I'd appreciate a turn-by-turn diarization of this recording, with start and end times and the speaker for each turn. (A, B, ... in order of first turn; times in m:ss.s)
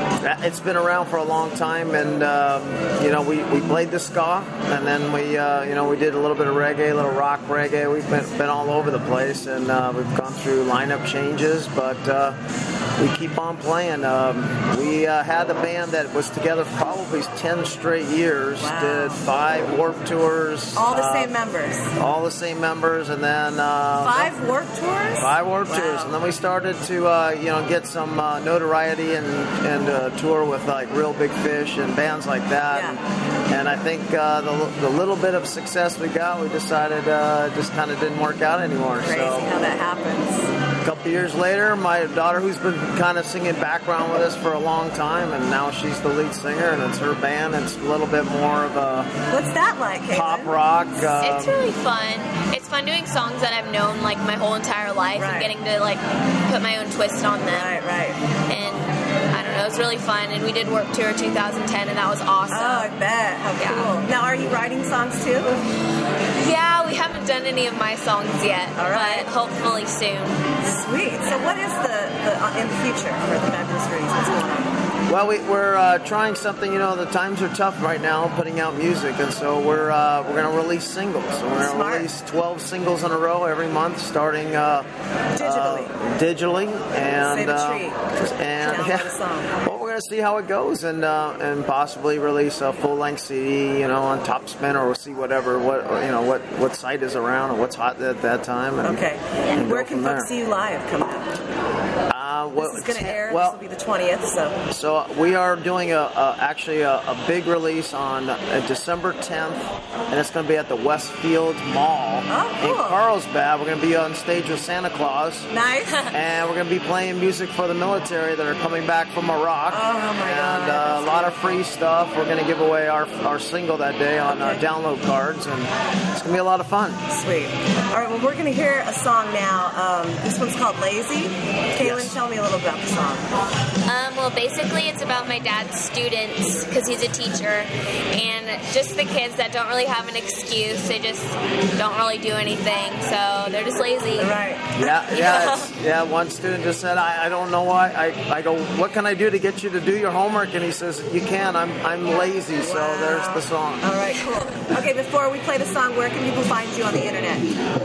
0:00.2-0:12.4 A
0:13.0-0:21.3 A
0:18.6-0:19.2 B
0:20.7-0:21.9 B
0:22.0-0:24.3 A
0:24.0-0:26.2 B
0:25.2-0:39.6 A
0:32.7-0:33.0 B
0:39.0-0:40.5 B
0:40.8-0:49.1 A
0:49.3-0:50.6 B
0:50.1-0:51.6 A
0:51.1-0:57.7 C
0:55.1-0:55.5 B
0:57.5-0:58.2 B
0:58.5-1:02.9 C
1:02.5-1:05.6 B
1:03.6-1:04.0 C
1:06.3-1:10.4 C
1:08.8-1:09.3 B
1:10.6-1:14.7 B
1:15.1-1:29.1 A
1:21.6-1:22.1 B
1:25.3-1:25.9 B
1:27.1-1:28.0 B
1:28.6-1:29.6 B
1:29.6-1:40.3 A
1:38.8-1:41.4 B
1:42.1-1:43.6 A
1:42.6-1:44.6 B
1:44.7-1:55.5 A
1:52.3-1:53.0 B
1:55.5-1:56.1 B
1:56.1-2:07.0 A
1:59.7-2:01.6 B
2:04.3-2:04.6 B
2:07.1-2:13.3 B
2:11.8-2:12.2 A
2:13.8-2:25.7 C
2:24.2-2:24.7 B
2:24.8-2:33.9 A
2:32.6-2:37.5 B